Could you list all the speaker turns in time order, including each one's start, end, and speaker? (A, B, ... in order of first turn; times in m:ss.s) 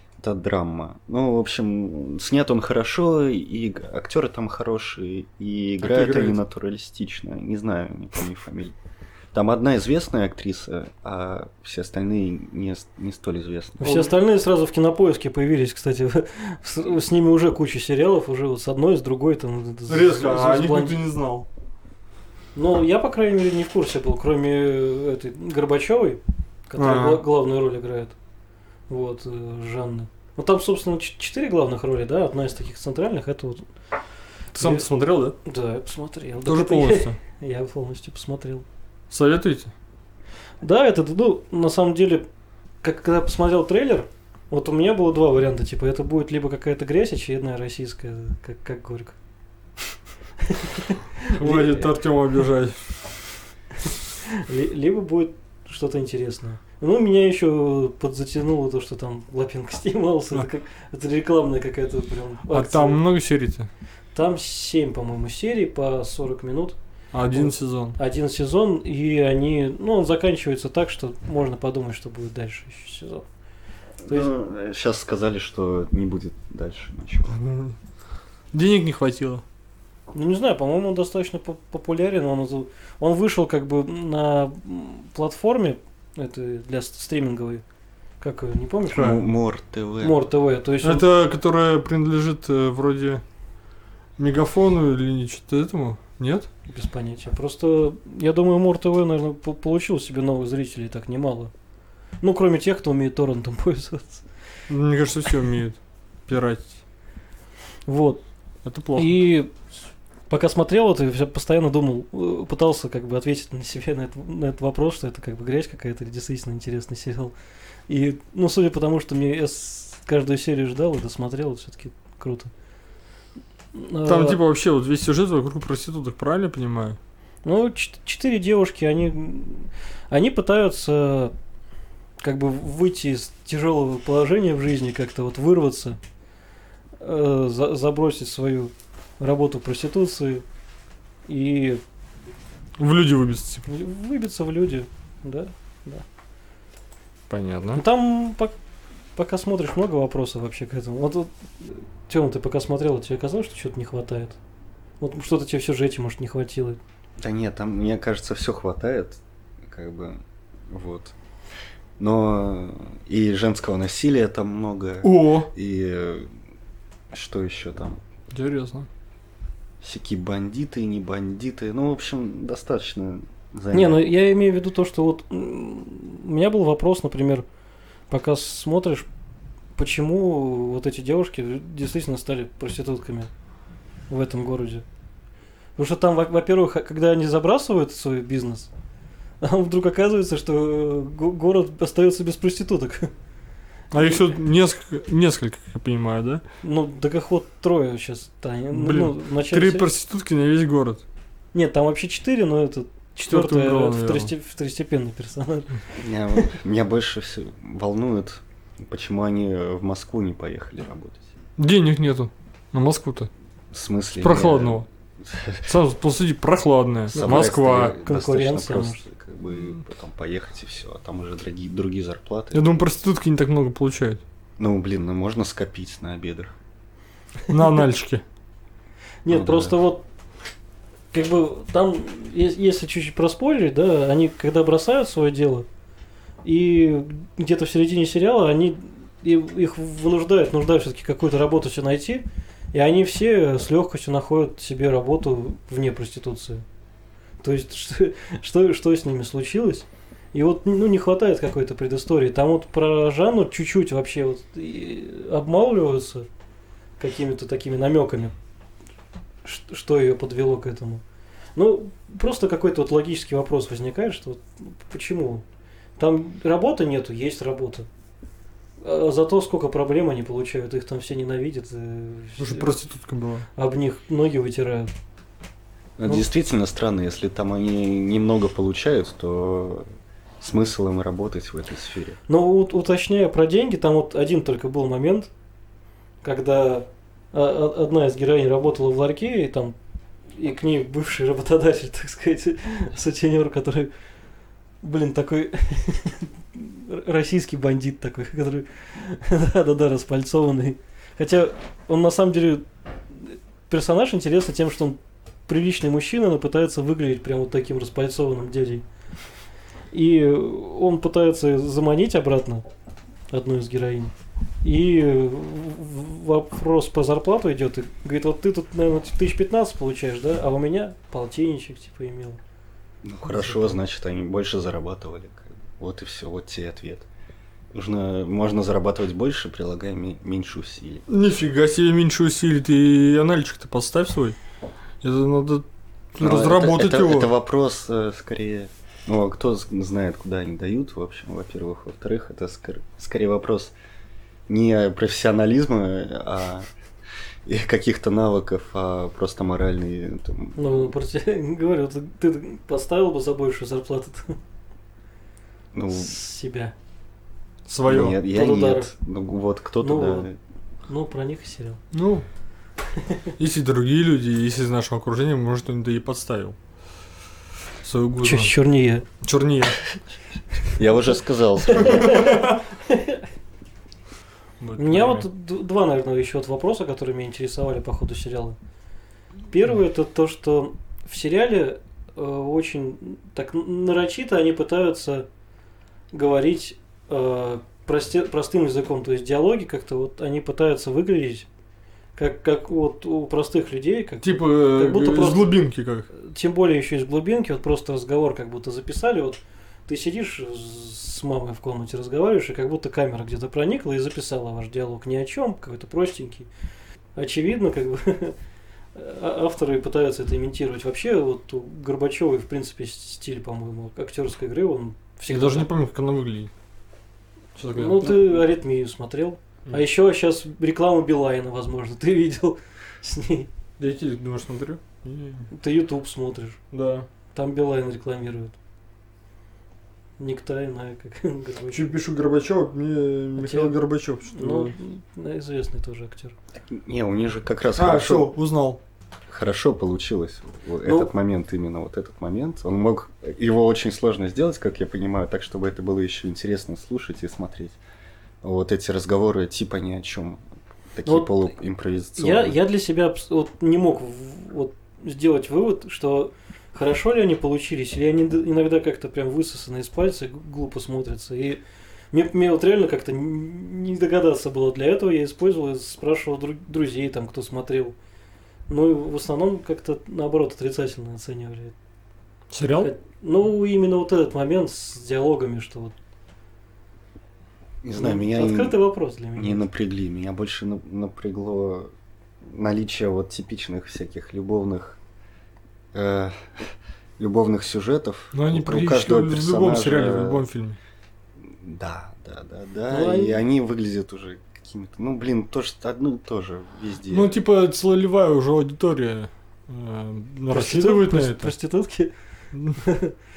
0:00.2-0:08.7 A
0:05.8-0:06.4 B
0:09.3-0:13.9 A
0:13.8-0:21.0 C
0:13.8-0:14.1 B
0:19.9-0:21.5 B
0:22.5-0:28.1 C
0:26.8-0:27.2 B
0:28.9-0:33.6 C
0:34.5-0:34.8 C
0:34.6-0:35.4 B
0:35.4-0:38.6 C
0:36.4-0:37.2 B
0:39.1-0:39.7 B
0:40.6-0:42.3 C
0:42.8-0:49.2 C
0:50.5-0:51.9 C
0:51.3-0:53.1 B
0:54.3-1:03.0 C
1:02.5-1:03.7 B
1:04.1-1:06.8 C
1:07.1-1:08.0 B
1:07.3-1:13.2 C
1:14.0-1:17.4 A
1:14.0-1:14.3 C
1:17.3-1:17.8 B
1:18.5-1:19.4 B
1:20.1-1:27.6 C
1:28.2-1:29.2 C
1:28.9-1:29.2 B
1:28.9-1:30.1 A
1:30.0-1:31.1 C
1:30.8-1:33.2 B
1:34.2-1:36.5 B
1:36.7-1:41.5 C
1:42.2-1:44.2 C
1:44.7-1:46.8 B
1:47.9-1:48.2 C
1:48.6-1:49.2 B
1:48.9-1:49.5 C
1:50.3-1:57.3 C
1:57.9-2:02.5 C
2:03.7-2:04.4 C
2:04.0-2:07.0 B
2:07.4-2:11.3 C
2:12.2-2:16.0 C
2:17.0-2:20.4 C
2:21.3-2:21.8 C
2:22.8-2:23.6 B
2:23.6-2:26.0 C
2:27.3-2:27.8 B
2:27.7-2:28.5 C
2:29.2-2:34.4 C
2:35.0-2:36.8 C
2:37.2-2:41.1 A
2:42.0-2:46.3 A
2:45.0-2:45.5 B
2:47.1-2:48.0 A
2:48.3-2:48.9 B
2:49.8-2:54.0 A
2:53.7-2:57.4 C
2:58.1-2:59.1 C
2:59.8-3:03.3 C
3:04.1-3:04.8 C
3:05.8-3:08.7 C
3:09.4-3:13.1 C
3:13.9-3:16.4 B
3:16.6-3:19.9 C
3:18.7-3:21.0 B
3:21.5-3:26.5 C
3:23.2-3:24.3 B
3:26.0-3:31.3 A
3:31.6-3:33.3 B
3:33.7-3:35.7 A
3:34.2-3:34.8 B
3:35.6-3:38.0 B
3:37.1-3:42.8 A
3:37.1-3:39.0 C
3:42.5-3:44.2 B
3:44.6-3:46.5 A
3:47.5-3:48.2 B
3:49.2-3:50.0 C
3:49.3-3:49.7 A
3:51.1-3:55.7 C
3:56.4-4:06.6 C
4:07.4-4:16.3 C
4:17.0-4:18.3 C
4:19.4-4:21.0 C
4:21.6-4:25.4 C
4:26.0-4:27.9 C
4:28.8-4:32.8 C
4:32.4-4:33.5 B
4:33.6-4:34.9 C
4:36.0-4:39.8 A
4:40.4-4:42.2 A
4:42.3-4:45.3 C
4:46.2-4:49.8 C
4:50.4-4:53.9 C
4:54.8-5:08.8 C
5:09.9-5:12.6 C
5:13.3-5:22.4 C
5:23.0-5:27.1 A
5:23.2-5:23.7 C
5:27.7-5:31.0 A
5:31.1-5:34.4 B
5:35.0-5:37.3 B
5:36.2-5:43.7 A
5:44.5-5:46.7 A
5:47.4-5:50.9 A
5:50.6-5:54.4 C
5:55.7-5:56.1 A
5:55.9-5:56.7 C
5:57.7-5:58.2 B
5:57.8-6:00.4 A
5:58.3-5:58.9 C
5:59.8-6:00.3 C
6:00.9-6:01.8 C
6:01.9-6:02.2 B
6:03.0-6:03.3 C
6:03.4-6:06.6 B
6:07.8-6:08.5 B
6:08.2-6:09.0 C
6:09.2-6:09.8 B
6:10.7-6:12.4 A
6:11.6-6:13.2 C
6:11.9-6:12.6 B
6:14.6-6:15.2 B
6:14.8-6:18.6 C
6:19.5-6:25.3 C
6:26.1-6:31.5 C
6:32.2-6:35.6 C
6:34.2-6:36.1 B
6:36.1-6:46.5 C
6:47.1-6:48.4 C
6:48.9-6:55.7 C
6:55.3-6:56.5 B
6:57.6-6:58.4 B
6:57.7-7:03.5 C
7:03.8-7:05.5 B
7:05.5-7:06.6 C
7:06.7-7:07.1 B
7:07.3-7:08.5 C
7:10.2-7:11.9 C
7:11.7-7:14.7 B
7:13.4-7:13.7 C
7:14.3-7:16.4 C
7:16.6-7:18.3 A
7:17.8-7:18.8 B
7:19.3-7:27.8 A
7:20.8-7:21.1 C
7:28.4-7:30.4 A
7:30.9-7:32.6 A
7:31.0-7:31.5 C
7:32.2-7:41.6 C
7:42.1-7:47.9 C
7:48.7-7:51.7 C
7:52.5-7:52.9 B
7:52.8-7:55.9 C
7:57.8-7:58.8 A
7:57.9-7:59.6 C
7:59.4-8:01.9 A
8:02.4-8:05.0 A
8:05.9-8:10.4 A
8:08.3-8:10.8 B
8:11.4-8:17.4 A
8:12.9-8:13.4 C
8:17.1-8:21.5 B
8:20.5-8:22.1 C
8:22.5-8:22.8 B
8:22.8-8:23.2 C